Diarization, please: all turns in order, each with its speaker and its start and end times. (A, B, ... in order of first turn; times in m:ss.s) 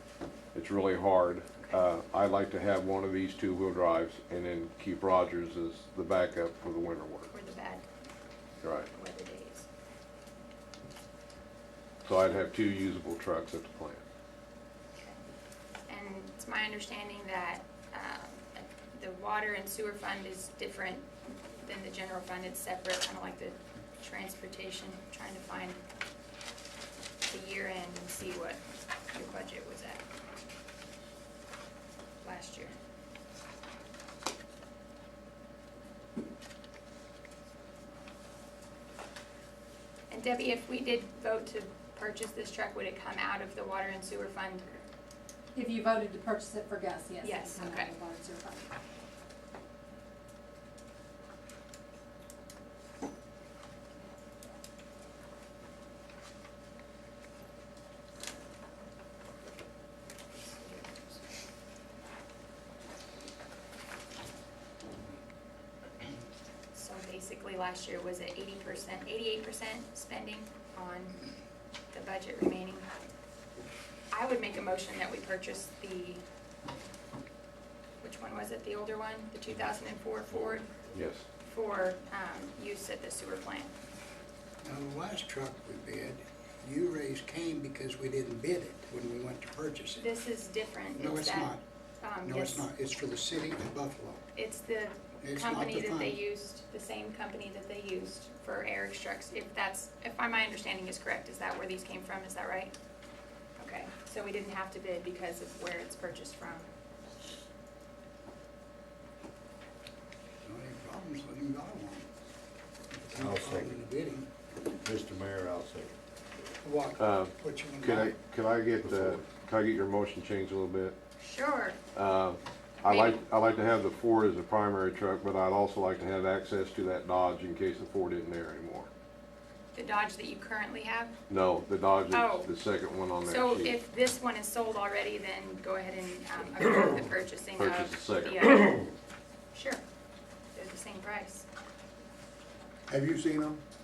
0:00.5-0:07.3 A
0:07.3-0:07.8 B
0:08.6-0:08.9 A
0:08.9-0:09.6 B
0:12.0-0:14.0 A
0:15.9-0:25.8 B
0:27.3-0:28.6 B
0:29.1-0:30.0 B
0:32.2-0:32.7 B
0:40.1-0:44.7 B
0:45.5-0:48.6 C
0:45.8-0:47.0 D
0:47.2-0:47.9 B
1:00.3-1:01.2 B
1:06.7-1:11.2 B
1:11.9-1:12.9 B
1:14.1-1:16.2 B
1:18.0-1:20.8 B
1:20.9-1:21.2 A
1:21.4-1:23.7 B
1:24.6-1:30.1 E
1:30.0-1:32.7 B
1:31.0-1:31.6 E
1:32.2-1:34.2 E
1:34.3-1:42.7 B
1:35.2-1:36.2 E
1:43.6-1:46.7 B
1:50.4-1:52.1 E
1:52.9-1:54.3 E
1:53.0-1:53.9 F
1:54.7-1:55.9 F
1:56.6-1:58.1 E
1:57.0-2:00.9 A
1:58.8-1:59.2 F
2:01.2-2:01.8 B
2:01.9-2:08.9 A
2:02.8-2:03.2 B
2:09.7-2:11.2 B
2:11.3-2:13.7 A
2:12.1-2:12.5 B
2:13.2-2:18.9 B
2:17.6-2:18.7 A
2:19.5-2:19.8 B
2:20.5-2:21.4 B
2:22.9-2:23.6 D